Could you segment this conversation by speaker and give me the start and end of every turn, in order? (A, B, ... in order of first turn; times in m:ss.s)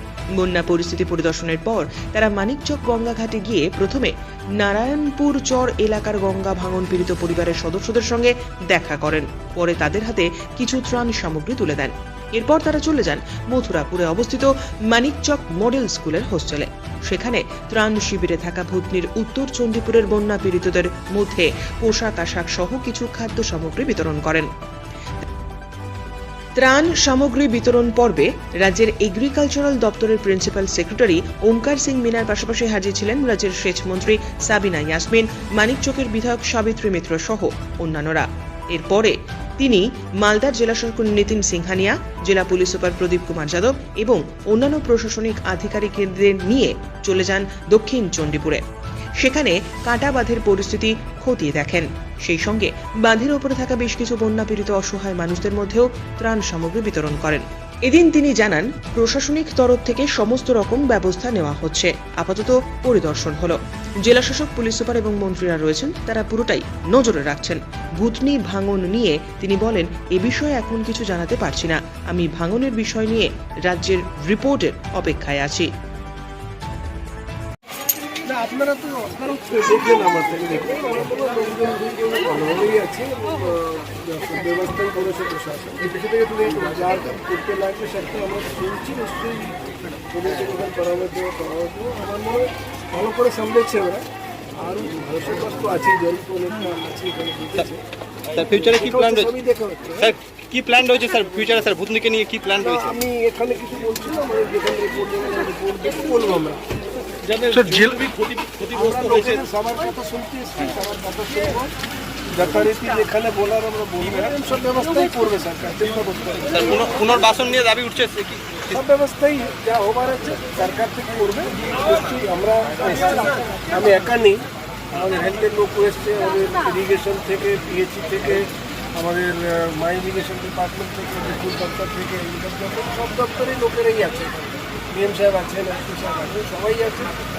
0:00.4-0:24.5 A
0:26.6-0:48.6 A
0:49.2-1:15.7 A
1:18.2-1:34.0 B
1:34.6-1:37.8 B
1:38.4-1:39.3 C
1:38.4-1:40.2 B
1:40.0-1:42.9 C
1:42.6-1:46.6 B
1:47.3-1:48.0 B
1:47.5-1:48.9 C
1:48.7-1:51.7 B
1:52.3-1:56.9 B
1:56.6-1:58.6 C
1:58.7-2:17.2 B